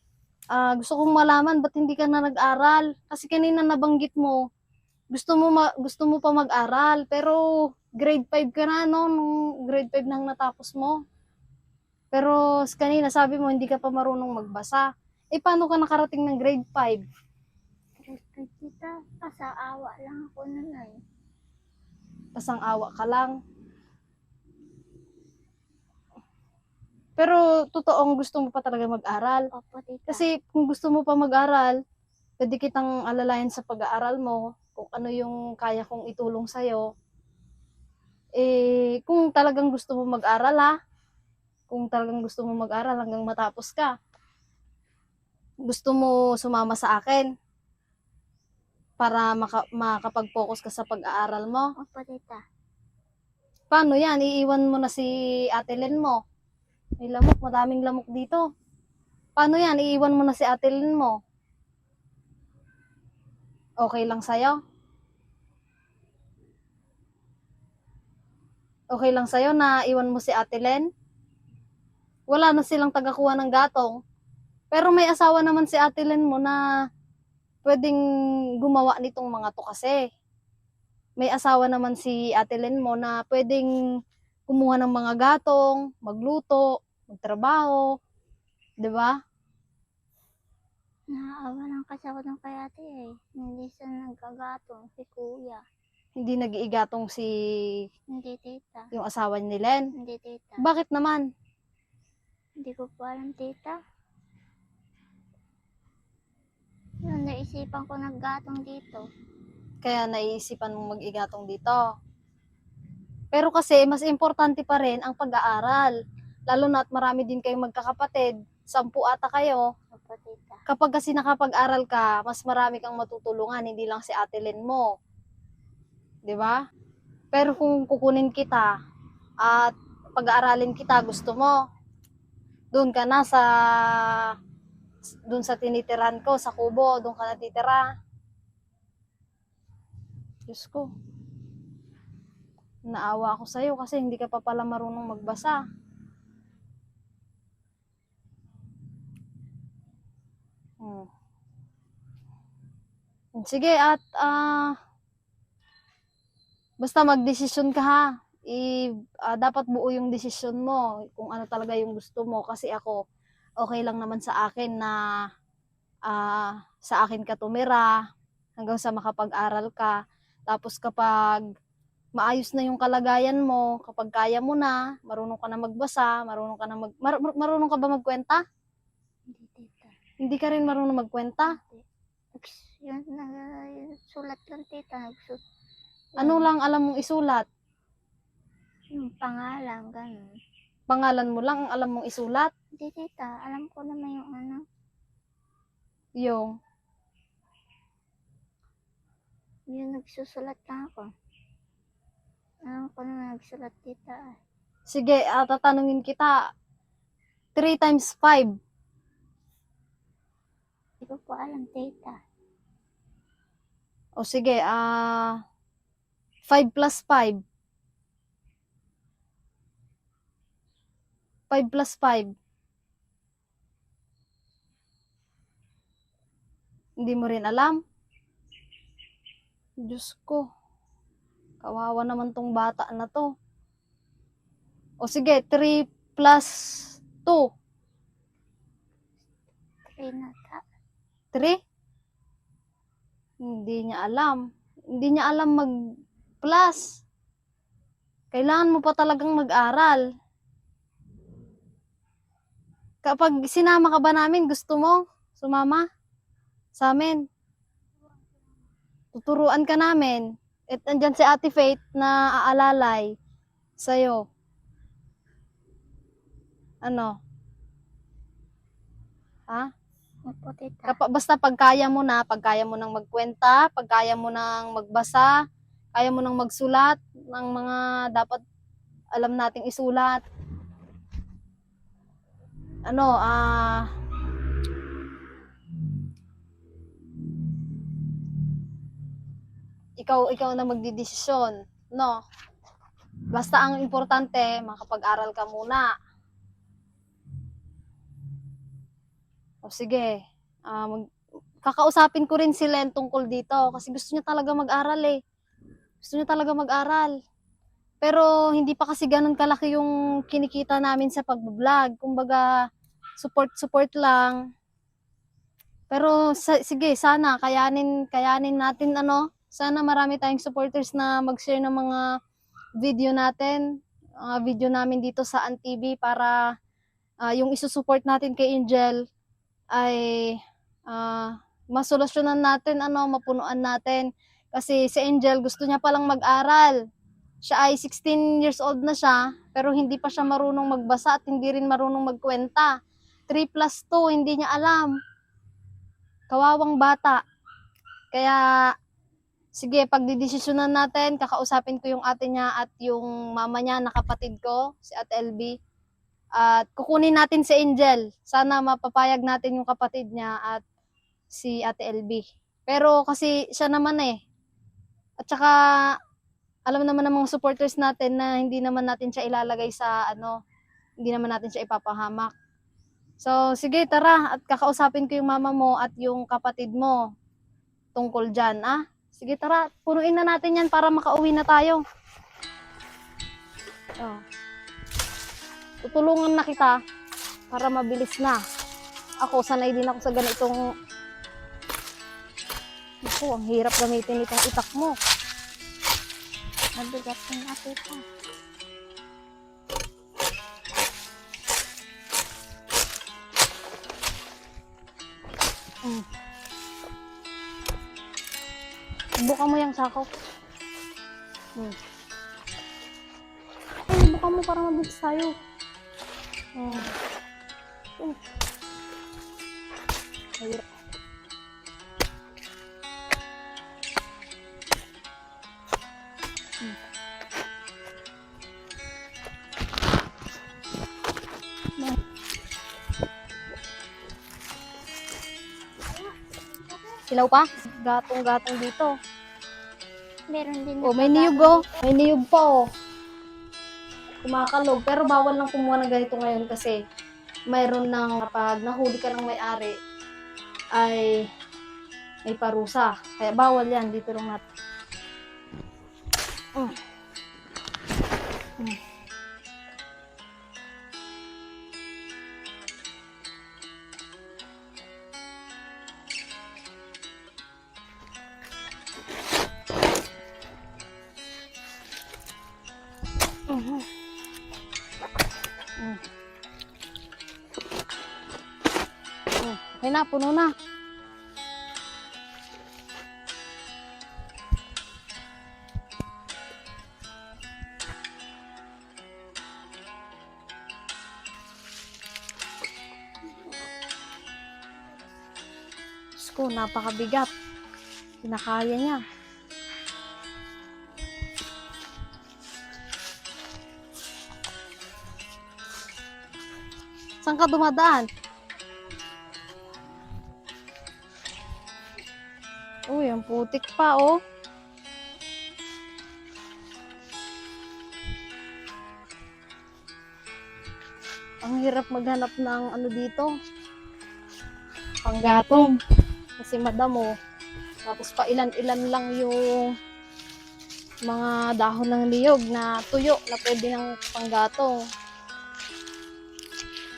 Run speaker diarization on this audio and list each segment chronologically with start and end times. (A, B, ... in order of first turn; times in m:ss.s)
0:00.5-0:04.4 A
0:05.1-0:07.4 A
0:08.0-0:11.0 A
0:12.1-0:17.0 A
0:18.0-0:21.0 B
0:22.4-0:23.3 A
0:27.2-0:29.4 A
0:29.5-0:30.2 B
0:30.1-0:31.8 A
0:32.4-0:36.8 A
0:38.4-0:40.7 A
0:41.7-0:43.9 A
0:45.7-0:47.3 A
0:49.0-0:51.7 A
0:51.8-0:52.4 B
0:53.7-0:56.2 A
0:57.0-0:58.4 A
0:59.4-1:01.2 A
1:03.8-1:04.6 A
1:08.9-1:10.8 A
1:12.3-1:14.0 A
1:14.7-1:16.6 A
1:17.6-1:18.0 A
1:18.6-1:20.0 A
1:21.2-1:23.7 A
1:24.5-1:27.8 A
1:28.8-1:29.2 A
1:31.1-1:35.6 B
1:36.2-1:37.3 A
1:38.1-1:38.9 B
1:38.9-1:39.9 A
1:40.0-1:40.6 B
1:40.6-1:41.2 A
1:42.6-1:43.8 B
1:47.0-1:49.0 B
1:49.8-1:51.8 A
1:53.3-1:55.9 A
1:56.5-1:59.6 A
1:59.9-2:00.6 B
2:00.7-2:04.9 A
2:06.3-2:06.6 A
2:07.3-2:08.7 A
2:09.4-2:11.6 A
2:12.7-2:14.3 A
2:15.3-2:17.8 A
2:20.5-2:20.9 A
2:22.9-2:25.6 A
2:30.8-2:31.1 A
2:33.4-2:34.7 A
2:36.8-2:43.0 A
2:43.6-2:45.0 A
2:46.1-2:47.9 A
2:48.6-2:50.0 A
2:50.5-2:51.4 A
2:52.2-2:58.4 A
2:59.3-2:59.9 B
3:00.2-3:01.5 A
3:01.4-3:01.8 B
3:02.3-3:05.4 B
3:06.2-3:06.5 B
3:06.2-3:07.4 A
3:08.9-3:10.3 B
3:10.9-3:12.5 A
3:12.8-3:14.6 B
3:19.7-3:21.1 B
3:22.6-3:24.3 B
3:24.9-3:26.3 A
3:27.6-3:28.5 A
3:31.0-3:32.2 B
3:34.2-3:35.4 A
3:36.5-3:37.4 A
3:41.5-3:42.3 A
3:47.0-3:47.8 A
3:49.8-3:50.4 A
3:51.6-3:53.3 A
3:55.0-3:57.5 A
3:59.9-4:00.6 B
4:03.4-4:04.4 A
4:05.0-4:05.7 A
4:06.4-4:06.8 A
4:08.3-4:10.0 A
4:13.0-4:15.8 A
4:16.8-4:17.2 A
4:19.1-4:23.1 A
4:23.8-4:24.2 A
4:26.8-4:27.1 A
4:30.3-4:31.0 B
4:30.9-4:35.3 A
4:35.9-4:38.4 A
4:39.2-4:40.2 A
4:42.9-4:43.9 A
4:50.0-4:52.1 A
4:53.3-4:55.9 A
4:59.6-5:00.1 A
5:00.7-5:01.0 A
5:01.6-5:05.2 A
5:06.0-5:07.1 A
5:08.0-5:12.4 A
5:13.2-5:14.4 A
5:15.9-5:22.0 A
5:22.8-5:23.6 A
5:24.2-5:26.4 A
5:27.3-5:29.0 A
5:29.7-5:30.4 A
5:30.9-5:36.8 A
5:37.4-5:42.7 A
5:43.3-5:44.9 A
5:46.3-5:47.2 A
5:48.1-5:48.4 A
5:49.6-5:55.5 A
5:56.4-6:00.6 A
6:01.3-6:04.2 A
6:05.2-6:05.5 A
6:06.7-6:10.4 A
6:11.0-6:12.3 A
6:13.2-6:17.0 A
6:18.0-6:21.8 A
6:25.8-6:26.8 A
6:27.5-6:28.4 A
6:29.2-6:30.6 A
6:33.0-6:35.0 A
6:36.8-6:38.0 B
6:49.2-6:50.1 A
6:53.9-6:55.3 A
6:56.6-6:56.9 A
7:00.4-7:00.6 A
7:17.1-7:18.9 A
7:20.3-7:21.8 B
7:20.8-7:22.6 A
7:24.2-7:26.8 A
7:27.5-7:29.7 A
7:30.8-7:31.2 A
7:32.3-7:34.4 A
7:53.5-7:53.8 A
7:59.4-8:00.5 A
8:16.2-8:17.3 A
8:18.2-8:19.0 A
8:27.2-8:28.0 A
8:32.9-8:34.1 A
8:41.4-8:43.3 A
8:45.0-8:45.7 A
8:46.4-8:47.1 A
8:47.8-8:49.4 A
8:51.1-8:54.8 A